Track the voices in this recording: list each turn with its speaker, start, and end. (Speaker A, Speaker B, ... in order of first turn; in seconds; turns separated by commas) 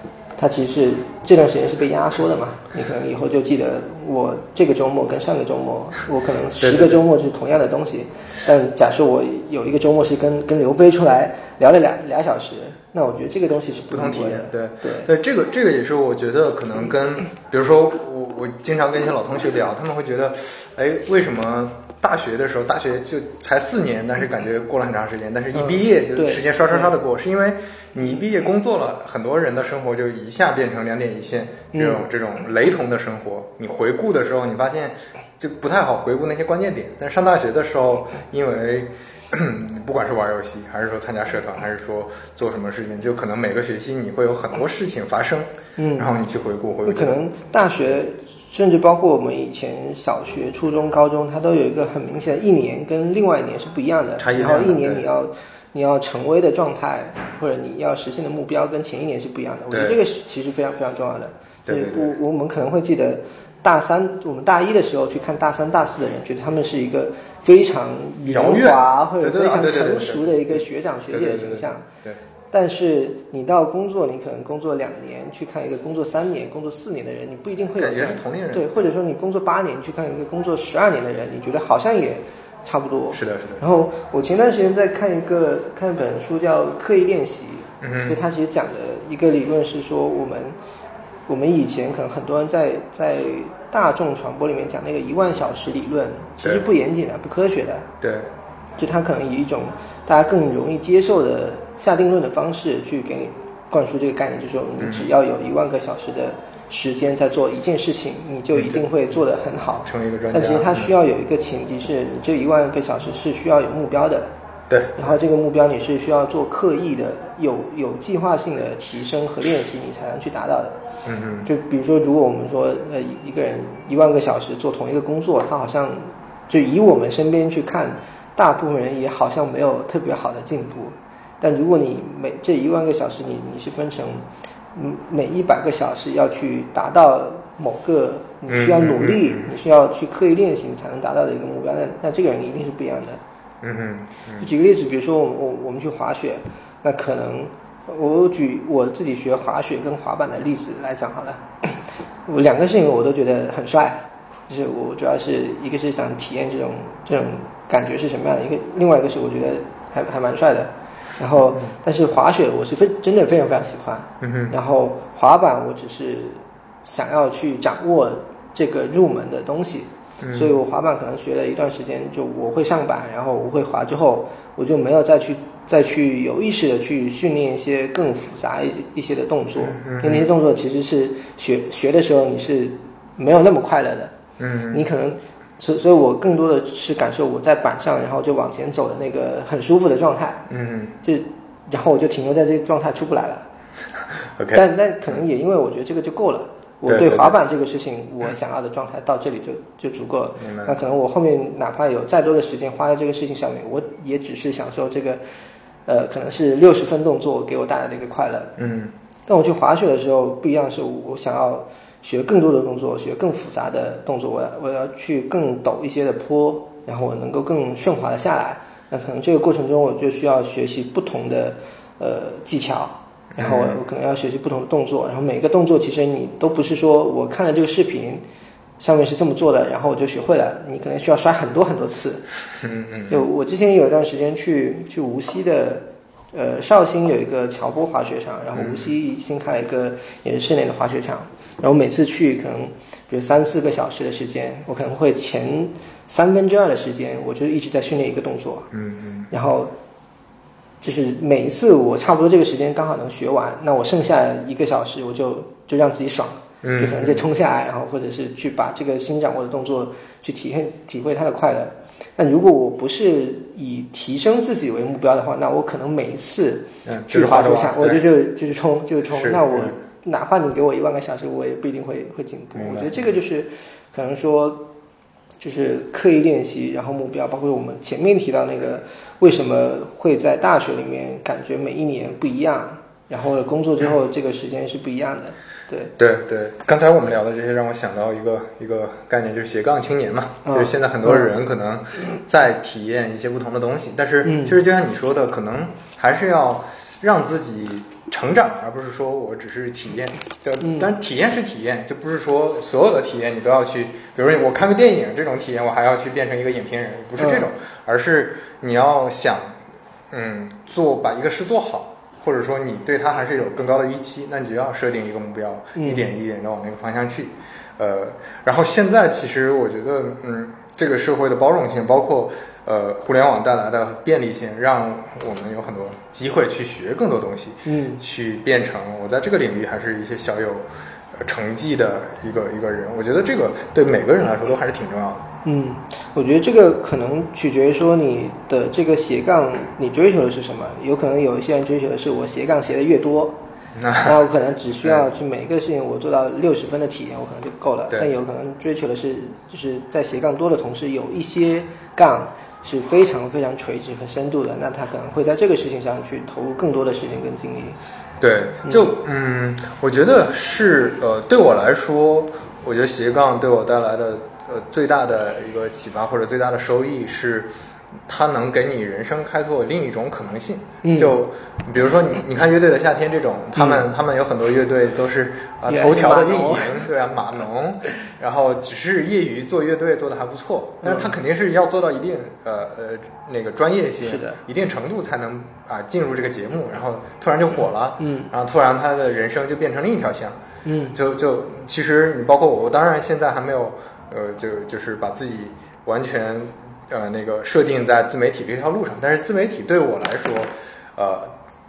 Speaker A: 0.4-15.1, Speaker B: 6.6-7.0, Speaker B: 13.9-47.2, Speaker A: 25.5-26.9, Speaker A: 31.7-32.1, Speaker A: 45.8-46.1, Speaker A: 46.9-71.9, Speaker B: 54.2-55.0, Speaker B: 59.7-60.0, Speaker B: 61.7-62.2, Speaker B: 68.2-72.2, Speaker A: 72.5-90.5, Speaker B: 77.8-78.8, Speaker B: 83.1-83.6, Speaker B: 87.8-88.2, Speaker A: 91.3-97.9, Speaker B: 98.0-98.3, Speaker A: 98.8-114.3, Speaker B: 104.8-105.1, Speaker B: 108.5-108.8, Speaker B: 109.8-110.9, Speaker B: 114.7-115.1, Speaker A: 115.0-120.8, Speaker B: 121.1-121.5, Speaker A: 121.5-143.2, Speaker B: 138.5-139.5, Speaker B: 143.6-144.5, Speaker A: 144.4-184.1, Speaker B: 164.2-164.6, Speaker B: 170.2-170.5, Speaker B: 179.6-180.3, Speaker B: 184.4-184.9, Speaker A: 184.7-190.5, Speaker B: 190.5-190.9, Speaker A: 191.0-193.5, Speaker B: 194.4-194.7, Speaker A: 194.5-205.2, Speaker B: 196.9-197.3, Speaker B: 200.4-200.8, Speaker A: 205.9-208.6, Speaker B: 208.6-208.9, Speaker A: 209.3-228.2, Speaker B: 223.3-223.8, Speaker A: 228.8-232.2, Speaker B: 232.6-233.2, Speaker A: 233.1-248.7, Speaker B: 238.5-238.9, Speaker B: 248.7-249.3, Speaker A: 249.3-249.7, Speaker A: 250.8-274.7, Speaker B: 256.6-257.2, Speaker B: 266.9-268.1, Speaker B: 269.1-269.8, Speaker B: 272.6-273.1, Speaker A: 275.4-285.9, Speaker B: 286.0-309.6, Speaker A: 290.4-291.3, Speaker A: 294.2-294.6, Speaker A: 300.6-300.9, Speaker A: 307.2-307.5, Speaker B: 310.1-335.2, Speaker A: 315.8-316.1, Speaker A: 327.7-328.0, Speaker A: 335.4-343.4, Speaker B: 343.8-344.1, Speaker A: 344.0-357.8, Speaker B: 358.2-367.5, Speaker B: 368.1-390.4, Speaker A: 370.8-371.2, Speaker A: 373.6-373.8, Speaker A: 375.7-376.8, Speaker A: 380.8-381.1, Speaker A: 384.0-384.4, Speaker A: 388.0-388.3, Speaker A: 390.6-391.0, Speaker B: 390.9-401.3